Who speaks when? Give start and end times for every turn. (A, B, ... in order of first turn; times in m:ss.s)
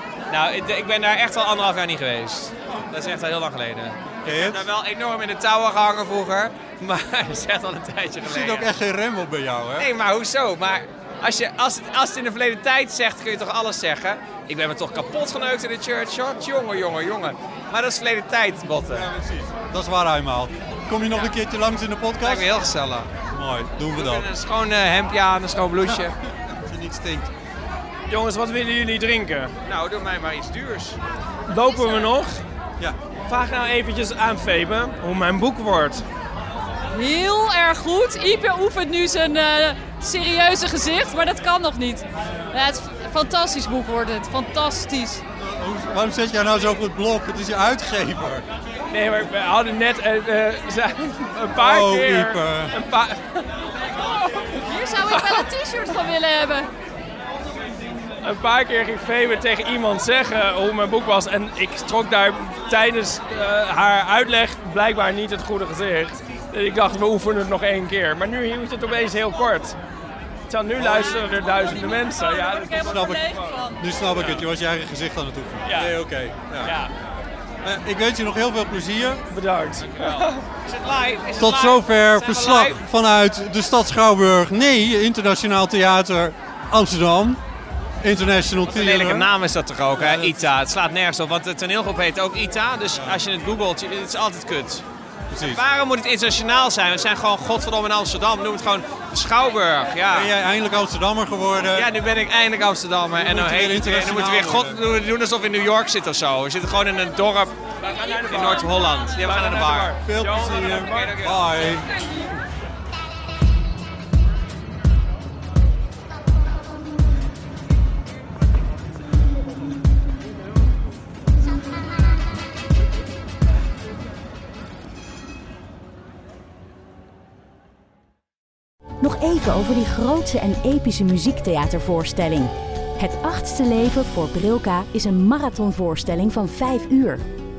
0:00.3-0:08.7 A
0:04.2-0:04.6 B
0:08.2-0:09.9 B
0:09.8-0:19.1 A
0:18.9-0:22.5 B
0:21.1-0:21.4 A
0:22.2-0:23.1 A
0:23.3-0:24.3 B
0:23.9-0:26.2 A
0:25.8-0:27.3 B
0:28.1-0:29.5 C
0:29.6-0:31.0 A
0:31.5-0:32.4 C
0:31.7-0:32.0 D
0:33.3-0:36.0 C
0:36.9-0:45.2 D
0:45.4-0:48.4 B
0:48.9-0:54.6 C
0:51.6-0:52.7 B
0:54.0-0:56.7 D
0:58.2-1:09.8 C
1:10.5-1:13.6 C
1:10.8-1:11.2 B
1:11.2-1:14.0 D
1:12.8-1:16.8 B
1:14.1-1:14.5 A
1:15.6-1:16.0 C
1:16.6-1:16.9 C
1:17.6-1:19.2 B
1:19.3-1:20.4 C
1:19.8-1:22.8 A
1:21.4-1:27.4 B
1:28.0-1:29.3 B
1:28.6-1:34.8 A
1:29.9-1:30.5 B
1:32.9-1:33.2 B
1:35.3-1:35.6 B
1:35.4-1:40.3 A
1:40.1-1:41.9 B
1:41.7-1:47.6 A
1:43.2-1:44.8 B
1:47.8-1:51.3 C
1:48.2-1:50.0 A
1:50.0-1:51.9 B
1:50.8-1:51.8 A
2:09.0-2:17.2 E